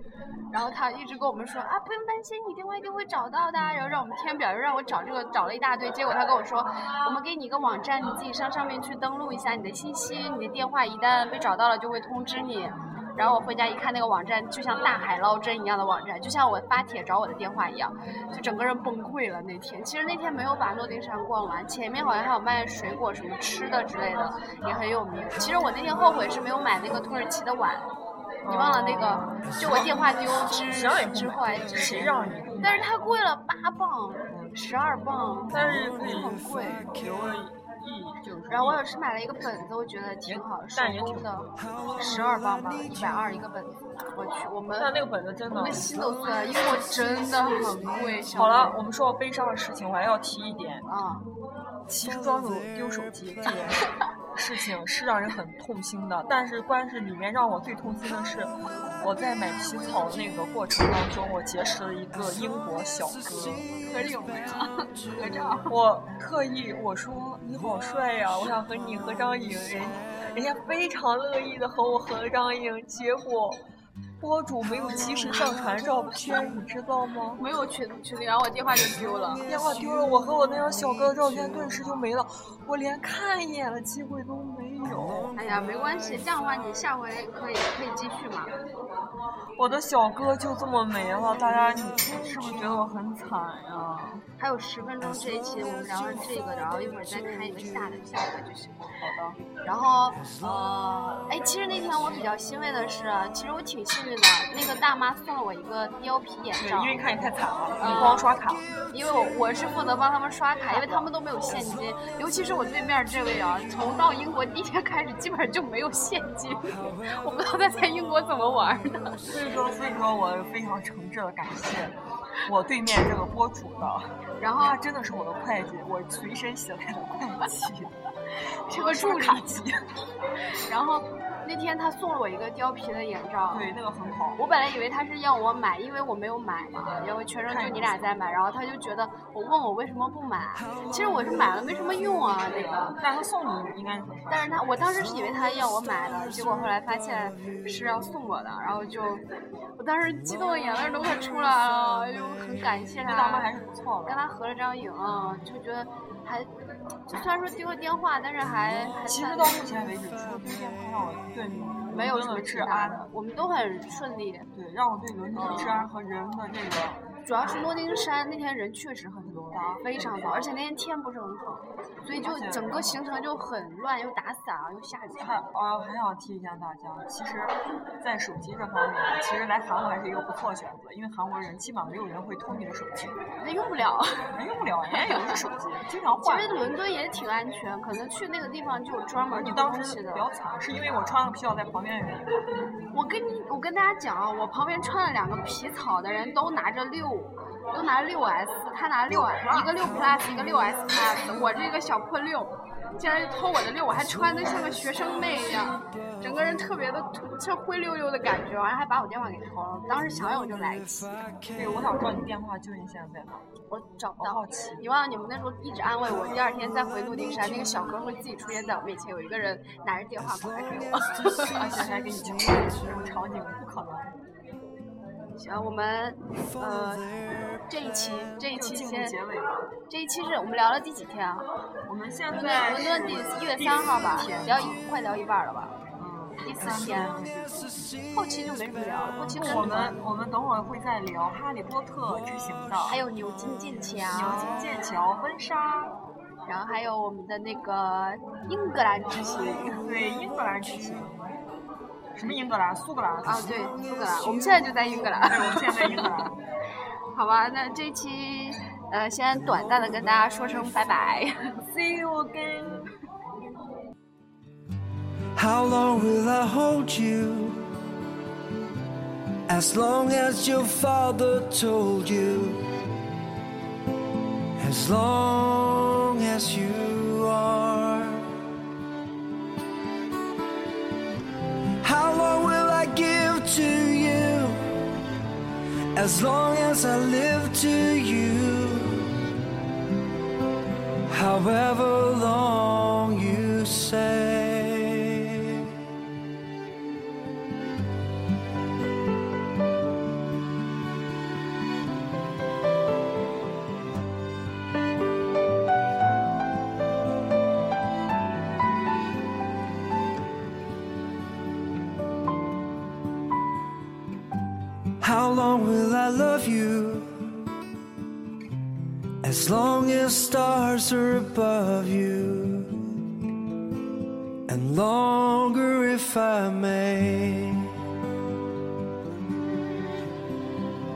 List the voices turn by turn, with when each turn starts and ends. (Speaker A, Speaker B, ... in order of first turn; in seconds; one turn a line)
Speaker A: 0.5-27.9
Speaker B: 28.4-32.9
Speaker A: 28.5-32.1
Speaker A: 32.6-36.9
Speaker B: 34.3-34.5
Speaker B: 35.5-36.4
Speaker B: 36.9-38.8
Speaker A: 38.5-44.9
Speaker B: 40.2-41.5
Speaker B: 44.8-45.9
Speaker A: 45.5-48.8
Speaker B: 48.3-50.9
Speaker A: 50.9-51.3
Speaker B: 51.9-63.6
Speaker A: 63.8-65.7
Speaker B: 65.7-73.6
Speaker B: 74.2-77.4
Speaker A: 77.4-79.4
Speaker B: 79.5-85.4
Speaker A: 85.4-88.5
Speaker B: 89.6-94.2
Speaker A: 94.4-98.9
Speaker B: 99.0-99.4
Speaker A: 99.6-107.0
Speaker B: 106.5-108.7
Speaker A: 107.8-108.3
Speaker A: 108.9-119.2
Speaker B: 119.3-127.9
Speaker A: 124.4-124.8
Speaker A: 128.7-129.7
Speaker B: 128.7-129.7
Speaker A: 130.7-133.7
Speaker B: 133.5-134.4
Speaker A: 134.4-143.0
Speaker B: 137.5-138.1
Speaker B: 142.6-144.7
Speaker A: 144.3-149.2
Speaker A: 149.8-153.5
Speaker B: 153.0-154.2
Speaker A: 154.1-156.5
Speaker A: 157.1-159.6
Speaker B: 159.1-163.1
Speaker A: 161.9-164.5
Speaker B: 164.5-167.0
Speaker A: 165.3-165.9
Speaker A: 167.2-175.4
Speaker B: 169.2-170.5
Speaker B: 172.1-173.0
Speaker B: 175.2-183.2
Speaker A: 183.4-184.3
Speaker B: 184.3-186.6
Speaker A: 184.9-185.4
Speaker A: 186.2-190.2
Speaker B: 189.3-192.3
Speaker A: 192.9-211.3
Speaker B: 199.1-199.8
Speaker B: 211.5-213.4
Speaker A: 213.7-221.6
Speaker B: 214.2-214.8
Speaker B: 221.5-224.2
Speaker A: 225.4-227.1
Speaker A: 227.7-229.2
Speaker B: 228.5-229.7
Speaker A: 229.9-231.5
Speaker B: 231.9-234.8
Speaker A: 232.3-235.8
Speaker B: 236.0-237.7
Speaker A: 236.4-237.2
Speaker A: 238.1-240.0
Speaker B: 239.3-243.0
Speaker A: 242.9-244.8
Speaker B: 244.1-246.0
Speaker A: 246.5-249.8
Speaker B: 249.7-251.3
Speaker B: 252.2-253.4
Speaker A: 253.2-256.3
Speaker B: 255.2-256.3
Speaker A: 257.1-261.6
Speaker B: 261.6-262.9
Speaker C: 265.4-267.7
Speaker C: 269.5-272.7
Speaker C: 274.6-278.4
Speaker C: 281.8-284.8
Speaker C: 285.9-289.3
Speaker C: 291.1-295.7
Speaker C: 315.0-317.4
Speaker C: 319.2-323.1
Speaker C: 324.5-327.9